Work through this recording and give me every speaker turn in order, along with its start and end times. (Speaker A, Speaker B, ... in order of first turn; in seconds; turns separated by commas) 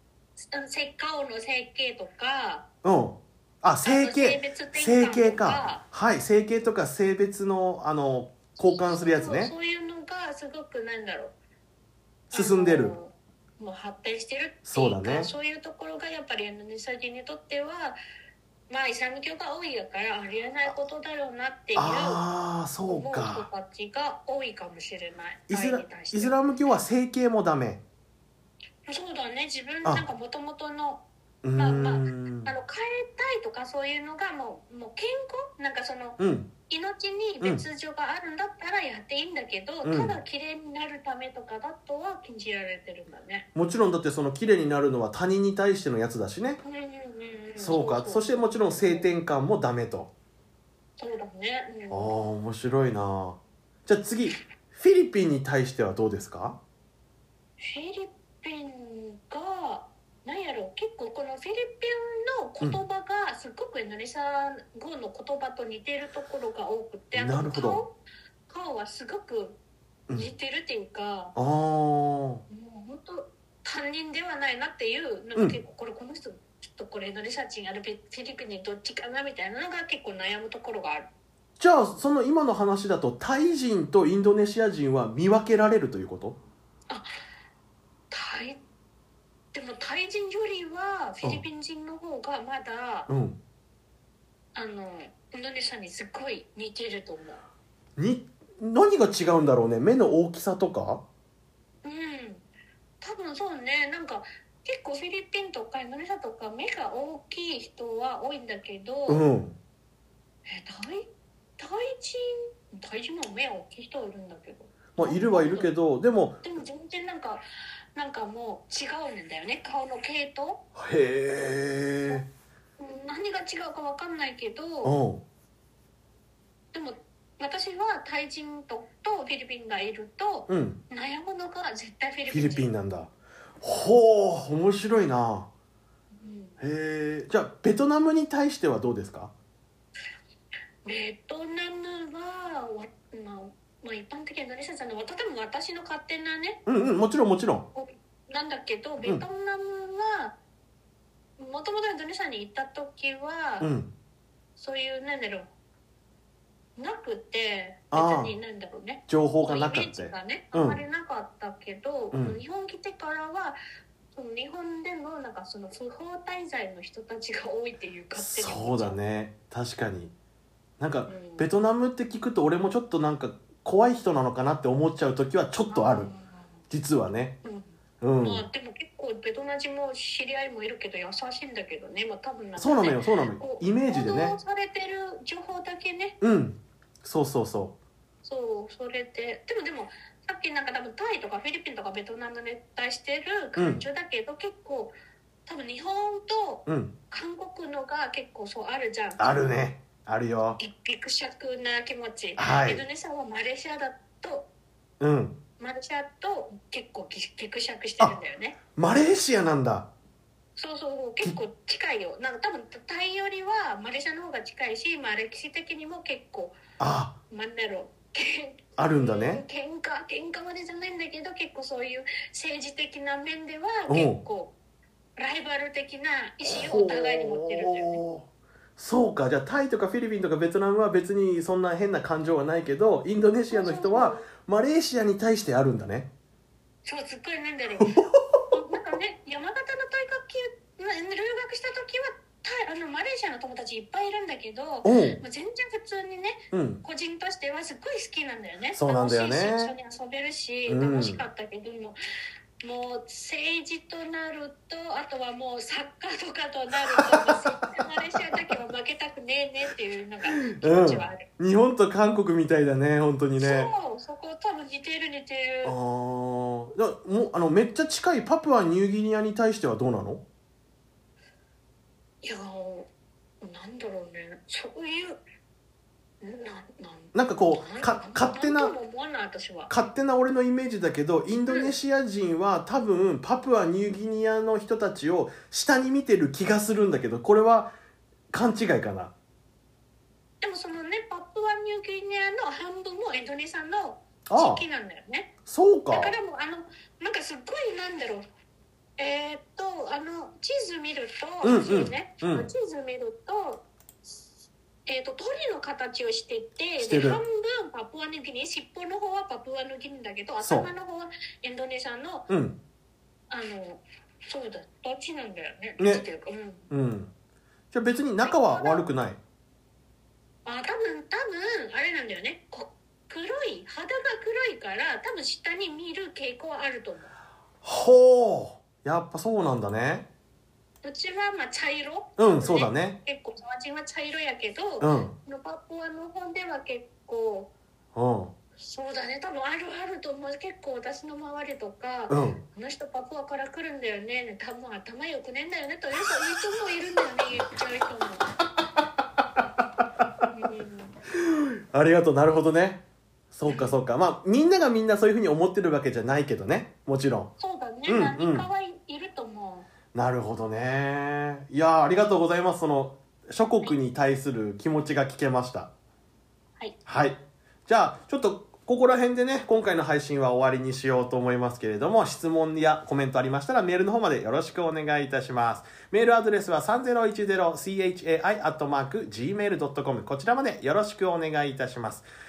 Speaker A: 0.4-2.7, Speaker B: 2.8-9.5, Speaker A: 3.8-5.8, Speaker A: 8.6-11.3, Speaker B: 12.3-13.0, Speaker A: 12.3-18.0, Speaker B: 14.7-15.3, Speaker A: 18.7-22.2, Speaker B: 21.8-23.5, Speaker A: 22.9-26.5, Speaker B: 25.5-27.8, Speaker A: 28.9-31.0, Speaker B: 31.4-32.5, Speaker A: 31.6-43.5, Speaker B: 36.2-36.5, Speaker B: 39.8-40.2, Speaker B: 43.5-46.6, Speaker A: 46.6-49.1, Speaker B: 47.6-50.1, Speaker A: 51.0-52.1, Speaker B: 51.9-56.6, Speaker A: 57.6-68.0, Speaker B: 67.1-67.8, Speaker A: 68.5-69.6, Speaker A: 70.1-71.3, Speaker B: 71.3-72.4, Speaker A: 72.5-81.1, Speaker B: 81.6-86.4, Speaker A: 88.1-88.6, Speaker A: 89.5-93.1, Speaker B: 93.1-93.4, Speaker A: 94.5-97.4, Speaker B: 98.0-101.0, Speaker A: 101.8-102.5, Speaker A: 103.0-109.2, Speaker B: 109.1-109.6, Speaker A: 110.5-115.7, Speaker B: 115.0-116.4, Speaker A: 116.4-117.4, Speaker A: 118.0-120.6, Speaker B: 120.8-122.3, Speaker A: 122.8-125.0, Speaker B: 124.8-125.2, Speaker A: 126.7-132.7, Speaker B: 130.5-130.8, Speaker B: 132.3-135.5, Speaker A: 136.2-136.6, Speaker B: 136.6-139.3, Speaker A: 140.8-146.6, Speaker B: 146.7-147.7, Speaker A: 147.7-150.4, Speaker A: 151.4-153.7, Speaker B: 153.6-153.9, Speaker A: 154.6-155.5, Speaker A: 156.8-163.6, Speaker B: 157.9-158.3, Speaker B: 159.1-160.8, Speaker B: 162.1-162.4, Speaker A: 164.1-169.0, Speaker B: 168.2-170.1, Speaker B: 170.8-176.1, Speaker A: 171.1-171.5, Speaker A: 175.7-176.6, Speaker B: 176.7-177.3, Speaker A: 177.4-186.2, Speaker B: 178.0-178.4, Speaker B: 182.6-184.4, Speaker B: 186.2-187.8, Speaker A: 188.2-194.9, Speaker B: 193.6-193.8, Speaker A: 195.5-199.5, Speaker B: 196.7-196.9, Speaker B: 199.2-200.6, Speaker A: 200.6-204.5, Speaker B: 202.4-202.8, Speaker B: 205.0-205.3, Speaker A: 205.6-208.6, Speaker B: 208.8-209.9, Speaker A: 210.6-216.6, Speaker B: 216.8-217.2, Speaker A: 217.3-224.6, Speaker B: 218.8-219.4, Speaker B: 223.9-224.2, Speaker A: 225.2-228.0, Speaker B: 226.4-228.3, Speaker B: 228.8-236.1, Speaker A: 233.5-234.3, Speaker A: 236.8-251.9, Speaker B: 237.8-238.4, Speaker B: 244.8-245.2, Speaker B: 246.5-246.8, Speaker B: 248.8-249.7, Speaker B: 250.7-251.3, Speaker A: 252.6-261.2, Speaker B: 256.9-257.7, Speaker B: 260.5-263.7, Speaker A: 263.4-265.8, Speaker B: 265.6-270.2, Speaker A: 272.2-272.9, Speaker A: 273.4-275.2, Speaker A: 276.2-279.7, Speaker B: 277.1-278.7, Speaker B: 279.7-287.7, Speaker A: 281.5-281.7, Speaker B: 288.3-289.1, Speaker A: 290.4-295.3, Speaker B: 294.3-294.6, Speaker B: 295.5-296.2, Speaker A: 295.9-298.2, Speaker A: 299.0-303.7, Speaker B: 301.4-302.5, Speaker A: 304.9-312.3, Speaker B: 306.8-307.2, Speaker B: 310.4-310.7, Speaker B: 312.3-312.6, Speaker A: 313.3-316.7, Speaker B: 315.8-316.0, Speaker B: 316.7-317.1, Speaker B: 317.7-319.2, Speaker A: 318.2-318.9, Speaker A: 320.4-327.2, Speaker B: 327.6-330.1, Speaker A: 330.8-337.5, Speaker B: 332.2-333.0, Speaker B: 334.8-335.1, Speaker B: 337.9-338.3, Speaker A: 338.6-348.3, Speaker B: 342.1-342.4, Speaker A: 350.3-350.9, Speaker B: 351.2-357.3, Speaker A: 353.4-353.8, Speaker A: 357.4-359.7, Speaker B: 357.9-358.5, Speaker B: 359.9-365.7, Speaker B: 366.9-382.1